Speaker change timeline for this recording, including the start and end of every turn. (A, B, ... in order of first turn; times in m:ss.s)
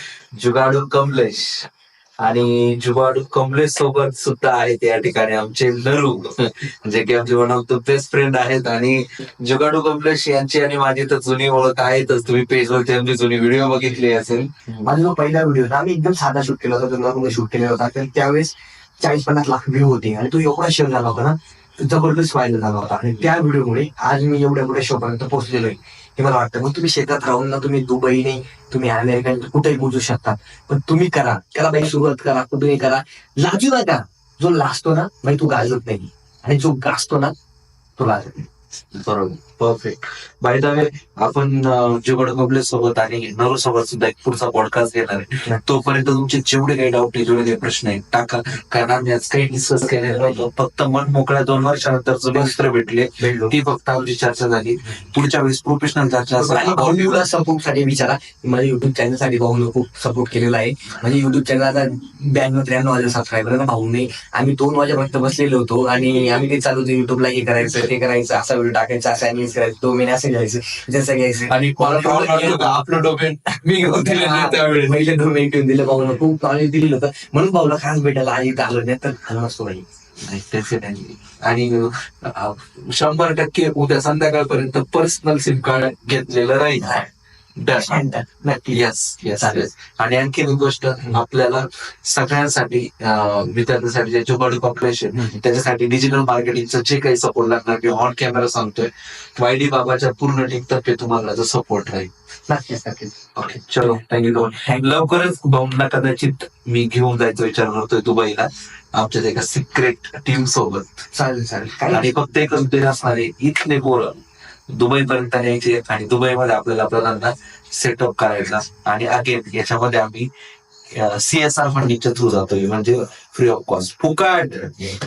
0:00.3-0:01.7 A
0:02.2-0:14.9 A
0:14.8-0:37.3 B
0:38.0-0:38.5 B
0:38.9-0:57.2 A
0:52.3-0:52.6 B
0:53.2-0:53.5 B
0:56.4-1:12.8 B
1:11.5-1:15.2 A
1:13.8-1:19.8 B
1:20.2-1:27.0 A
1:27.6-1:28.0 A
1:27.7-1:28.8 B
1:28.7-1:42.1 A
1:29.4-1:29.6 B
1:42.5-1:43.1 B
1:43.3-1:51.0 A
1:51.1-1:52.1 B
1:51.9-2:00.3 A
2:00.9-2:05.0 A